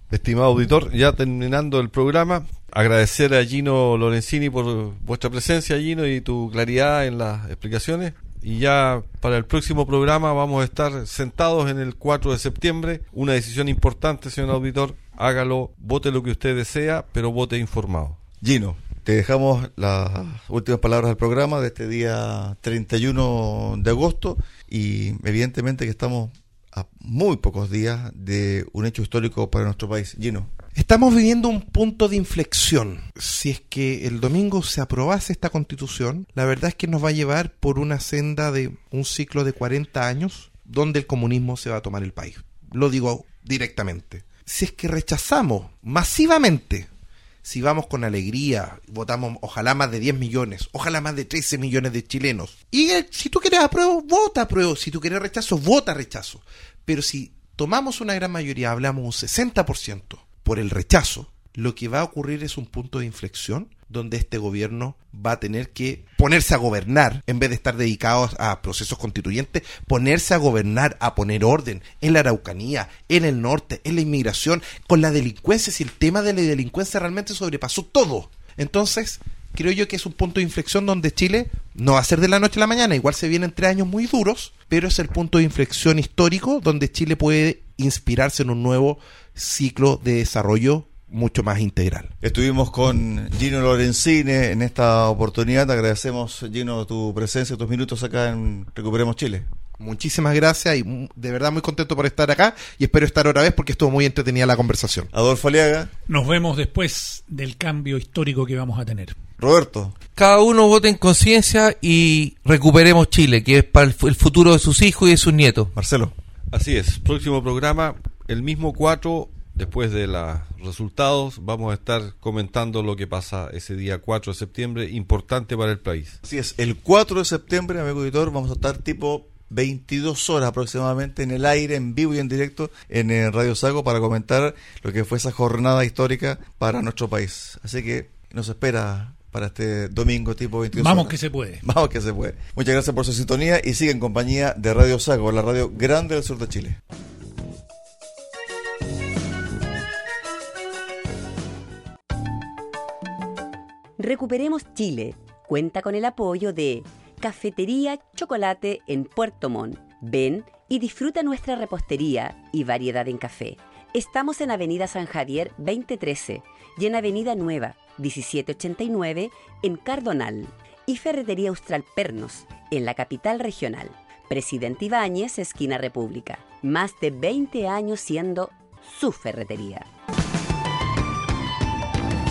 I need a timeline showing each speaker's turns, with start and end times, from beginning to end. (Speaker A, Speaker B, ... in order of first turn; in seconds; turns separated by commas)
Speaker A: 0.1-18.2, Speaker B: 18.4-30.5, Speaker C: 30.7-46.9, Speaker C: 47.4-92.1, Speaker B: 92.2-99.5, Speaker C: 99.8-105.1, Speaker B: 105.1-105.9, Speaker D: 106.1-109.2, Speaker B: 109.4-109.9, Speaker E: 110.2-115.7, Speaker B: 115.7-116.1, Speaker A: 116.5-126.2, Speaker B: 126.2-146.8, Speaker D: 140.7-141.6, Speaker F: 154.0-179.9